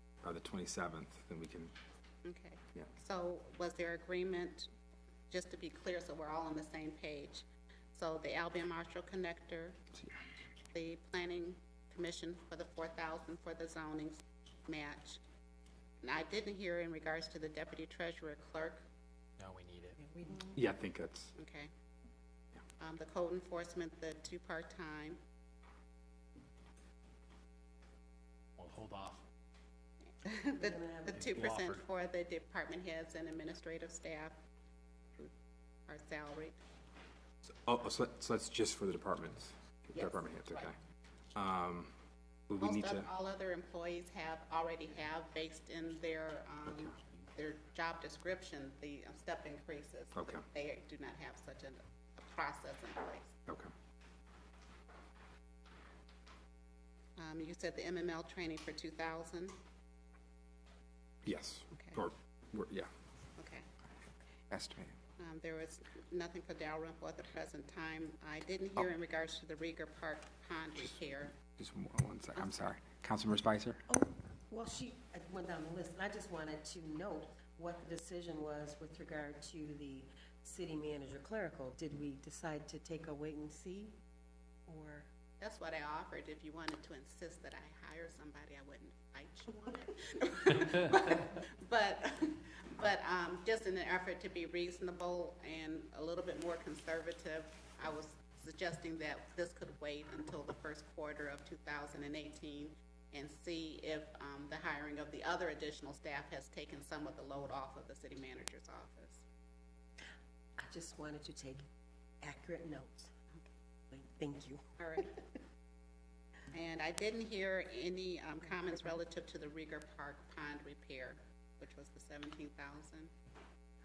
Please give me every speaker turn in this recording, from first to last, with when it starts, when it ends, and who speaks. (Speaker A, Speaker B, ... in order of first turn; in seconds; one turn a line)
Speaker A: 0.2-1.7
Speaker B: 2.2-4.7
Speaker B: 5.3-9.8
Speaker B: 10.7-15.2
Speaker B: 16.0-18.8
Speaker C: 19.4-20.0
Speaker D: 20.0-20.5
Speaker A: 20.5-21.3
Speaker B: 21.4-21.7
Speaker B: 22.8-25.2
Speaker C: 28.6-29.2
Speaker B: 30.2-34.4
Speaker D: 30.6-31.3
Speaker C: 31.1-31.8
Speaker B: 35.9-36.6
Speaker A: 37.6-40.7
Speaker B: 39.9-40.7
Speaker A: 41.3-41.9
Speaker A: 42.5-43.1
Speaker B: 42.6-53.3
Speaker A: 50.1-50.4
Speaker B: 57.2-59.5
Speaker A: 61.2-62.9
Speaker B: 61.7-62.0
Speaker B: 63.4-63.6
Speaker A: 64.5-65.0
Speaker B: 65.2-71.3
Speaker A: 71.5-73.8
Speaker D: 73.9-83.9
Speaker D: 84.7-85.1
Speaker B: 85.4-109.2
Speaker D: 110.6-111.6
Speaker D: 112.2-113.1
Speaker D: 113.9-114.6
Speaker B: 114.8-115.1
Speaker B: 116.5-123.1